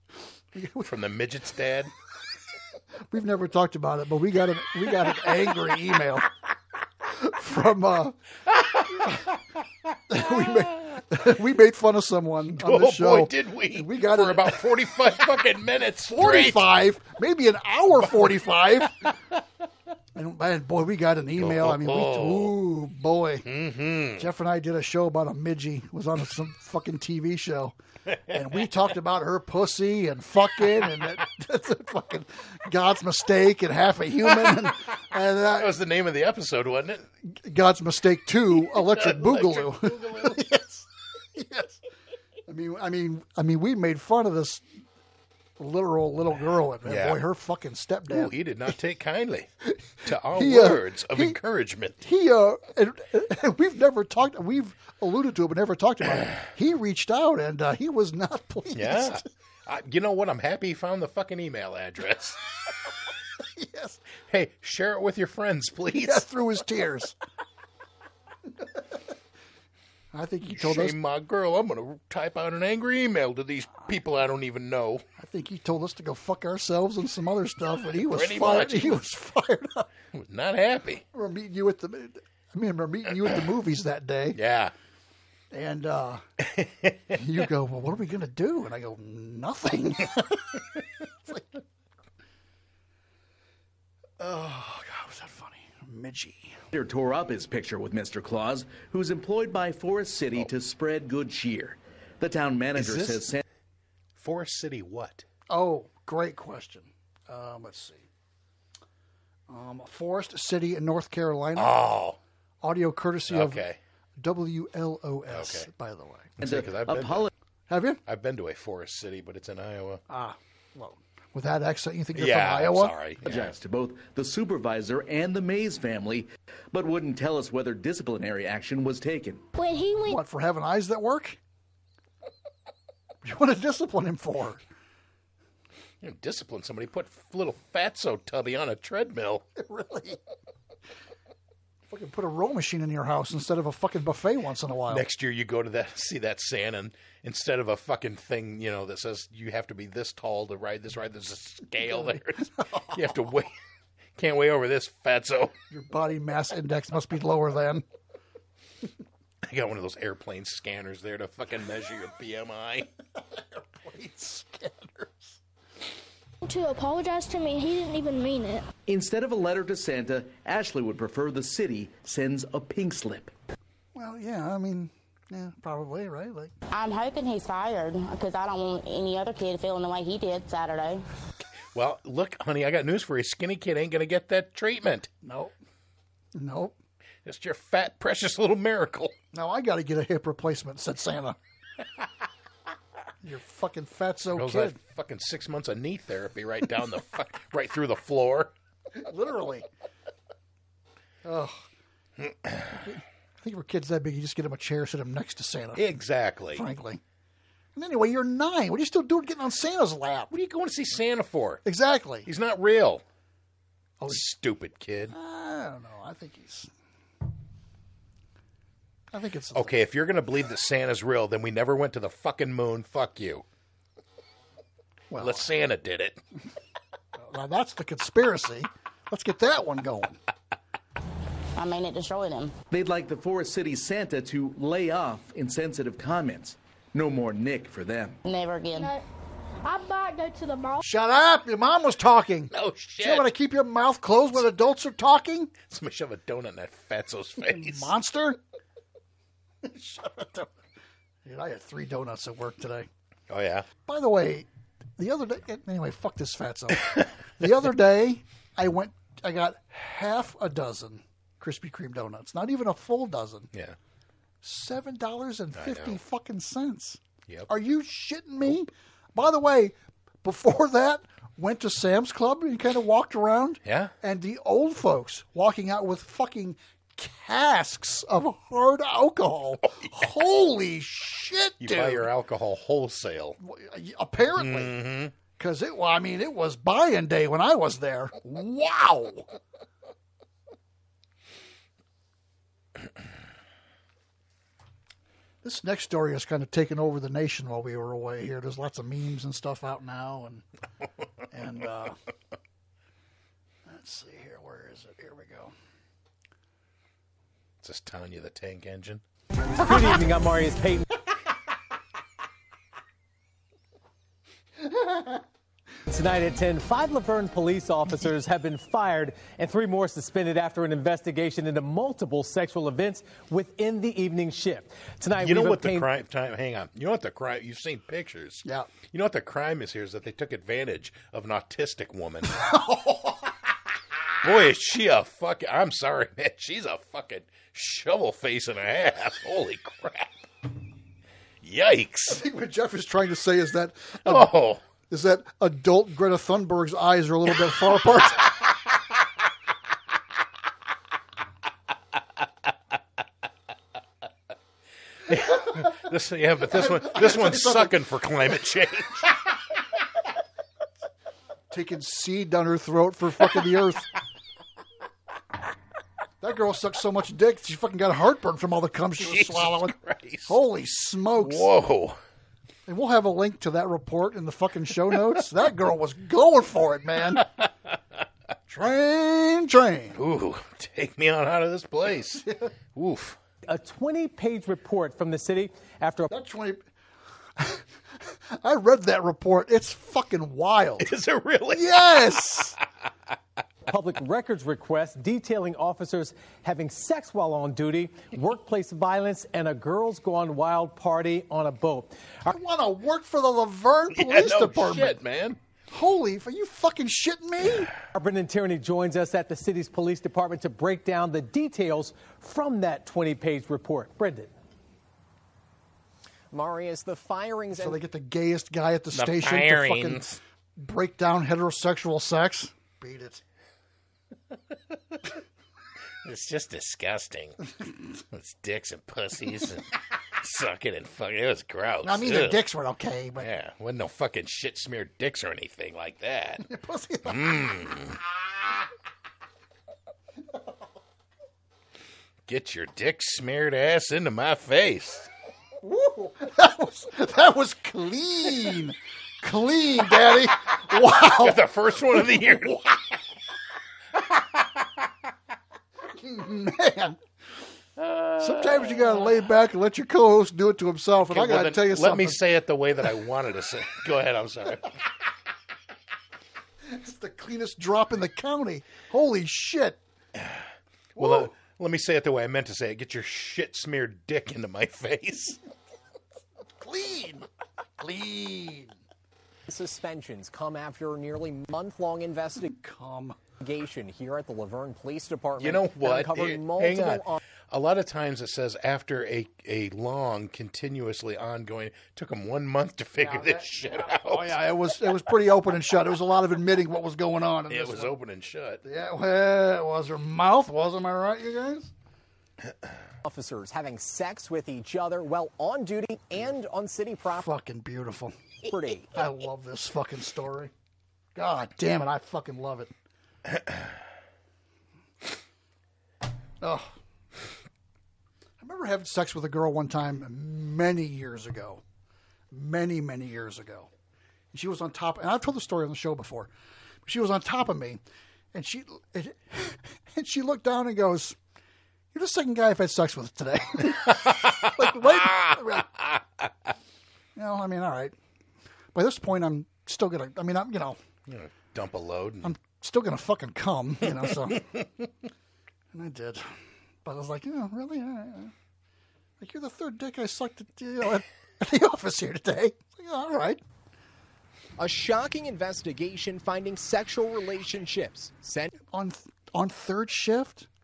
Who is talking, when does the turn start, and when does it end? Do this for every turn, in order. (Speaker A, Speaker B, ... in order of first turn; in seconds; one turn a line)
Speaker A: 0.5-0.9
Speaker B: 0.8-1.9
Speaker A: 3.1-6.3
Speaker A: 7.0-8.2
Speaker B: 8.7-9.2
Speaker A: 8.9-9.2
Speaker A: 10.1-14.9
Speaker B: 12.6-16.6
Speaker A: 16.1-19.1
Speaker A: 20.1-23.5
Speaker B: 21.4-22.5
Speaker B: 23.5-24.2
Speaker A: 24.1-27.8
Speaker A: 28.3-35.8
Speaker B: 35.5-37.0
Speaker A: 37.2-41.8
Speaker B: 38.6-40.4
Speaker A: 42.5-44.6
Speaker A: 45.6-48.3
Speaker B: 46.8-47.2
Speaker B: 48.1-49.5
Speaker B: 50.0-52.0
Speaker A: 50.3-51.4
Speaker A: 52.0-59.2
Speaker B: 58.7-62.4
Speaker A: 63.4-64.0
Speaker B: 64.3-66.2
Speaker A: 66.0-67.2
Speaker A: 68.6-68.9
Speaker A: 70.1-71.0
Speaker B: 70.5-75.0
Speaker A: 75.2-79.9
Speaker B: 78.0-79.0
Speaker B: 80.1-81.0
Speaker A: 81.1-84.4
Speaker B: 84.3-84.7
Speaker A: 85.5-86.2
Speaker B: 86.4-87.0
Speaker A: 87.1-90.6
Speaker A: 94.2-96.6
Speaker C: 96.7-103.4
Speaker B: 102.7-103.2
Speaker B: 104.2-105.2
Speaker A: 105.5-108.1
Speaker A: 109.5-111.7
Speaker B: 111.5-112.2
Speaker A: 112.6-113.6
Speaker B: 113.3-113.8
Speaker A: 114.2-116.3
Speaker B: 115.3-115.7
Speaker B: 116.4-117.3
Speaker C: 116.4-117.3
Speaker A: 117.7-118.0
Speaker B: 118.0-120.0
Speaker A: 120.1-122.9
Speaker B: 122.1-123.5
Speaker C: 123.2-129.4
Speaker D: 129.6-130.2
Speaker A: 130.0-131.4
Speaker A: 133.2-134.6
Speaker B: 136.0-139.4
Speaker A: 139.6-140.2
Speaker A: 141.9-145.1
Speaker B: 144.9-153.5
Speaker A: 151.8-153.2
Speaker B: 154.2-155.5
Speaker A: 155.7-157.8
Speaker B: 159.5-162.9
Speaker A: 163.2-165.4
Speaker D: 166.4-168.7
Speaker C: 168.9-173.3
Speaker A: 173.9-176.5
Speaker E: 176.7-181.0
Speaker B: 181.7-185.1
Speaker A: 185.2-185.5
Speaker A: 186.3-186.8
Speaker B: 187.2-189.1
Speaker A: 189.3-191.4
Speaker A: 193.2-194.8
Speaker B: 194.3-198.5
Speaker A: 198.9-199.7
Speaker A: 201.2-201.7
Speaker A: 202.8-205.8
Speaker B: 205.8-206.6
Speaker A: 206.5-207.0
Speaker A: 207.7-210.3
Speaker B: 210.3-211.6
Speaker A: 211.6-212.3
Speaker B: 212.2-213.0
Speaker B: 214.1-215.1
Speaker A: 215.1-216.7
Speaker A: 219.1-219.8
Speaker B: 219.5-223.4
Speaker A: 225.1-225.5
Speaker B: 225.2-226.2
Speaker A: 227.2-230.2
Speaker E: 231.6-232.5
Speaker C: 232.7-238.2
Speaker E: 238.2-238.9
Speaker D: 238.8-239.0
Speaker D: 239.6-240.8
Speaker A: 240.8-245.5
Speaker B: 242.5-243.2
Speaker B: 245.6-247.9
Speaker A: 247.4-248.4
Speaker A: 249.6-250.5
Speaker A: 251.2-252.9
Speaker B: 253.3-253.7
Speaker A: 253.8-254.5
Speaker A: 255.0-263.5
Speaker A: 264.4-282.1
Speaker B: 265.6-266.0
Speaker B: 273.6-273.9
Speaker B: 281.6-283.4
Speaker A: 283.4-289.3
Speaker B: 284.4-285.1
Speaker A: 295.4-300.4
Speaker A: 301.3-302.0
Speaker A: 303.6-305.5
Speaker B: 307.6-309.0
Speaker F: 309.6-310.9
Speaker A: 314.7-315.1
Speaker F: 315.9-325.9
Speaker B: 325.2-332.4
Speaker A: 328.4-328.7
Speaker A: 332.3-333.3
Speaker B: 334.2-340.2
Speaker B: 341.4-342.2
Speaker A: 342.1-344.3
Speaker B: 344.1-344.6
Speaker A: 344.8-348.3
Speaker B: 355.1-359.1
Speaker A: 356.5-357.8
Speaker A: 361.5-363.9
Speaker A: 366.2-369.8
Speaker B: 369.0-370.4
Speaker A: 370.3-371.5
Speaker B: 371.2-372.0
Speaker A: 372.7-377.3
Speaker A: 378.5-380.0
Speaker B: 379.9-383.2
Speaker F: 383.5-386.1
Speaker A: 386.1-386.6
Speaker A: 387.4-390.9
Speaker B: 390.8-391.7
Speaker A: 391.5-392.6
Speaker F: 393.7-402.2
Speaker A: 402.3-405.0
Speaker B: 403.9-405.4
Speaker A: 405.7-407.7
Speaker F: 407.9-414.3
Speaker G: 416.3-417.8
Speaker A: 417.5-423.2
Speaker B: 418.9-420.0
Speaker B: 426.0-427.4
Speaker B: 428.1-432.4
Speaker A: 431.8-433.3
Speaker B: 433.2-436.4
Speaker A: 436.4-437.5
Speaker B: 437.1-438.0
Speaker B: 442.3-445.1
Speaker A: 445.6-452.8
Speaker B: 451.0-452.6
Speaker A: 455.9-457.0
Speaker B: 457.8-458.9
Speaker A: 458.2-462.2
Speaker B: 461.1-464.7
Speaker A: 466.6-469.8
Speaker B: 470.9-475.4
Speaker A: 471.0-471.3
Speaker A: 476.6-477.3
Speaker A: 477.8-478.7
Speaker G: 479.5-482.5
Speaker A: 482.4-483.2
Speaker G: 483.4-487.2
Speaker B: 485.4-494.4
Speaker A: 493.0-497.9
Speaker B: 497.5-498.6
Speaker A: 498.6-501.7
Speaker G: 503.0-507.3
Speaker A: 507.1-508.1
Speaker G: 508.4-508.9
Speaker A: 508.9-510.5
Speaker A: 511.1-512.7
Speaker A: 516.4-516.7
Speaker A: 518.4-521.6
Speaker A: 522.3-523.7
Speaker A: 524.3-526.3
Speaker A: 526.8-527.8
Speaker A: 528.3-531.2
Speaker A: 531.9-535.7
Speaker B: 534.0-536.0
Speaker A: 537.1-537.9
Speaker A: 538.7-540.8
Speaker B: 541.1-542.3
Speaker A: 542.2-544.5
Speaker A: 545.7-548.3
Speaker A: 549.2-553.4
Speaker G: 554.6-558.5
Speaker A: 558.7-560.5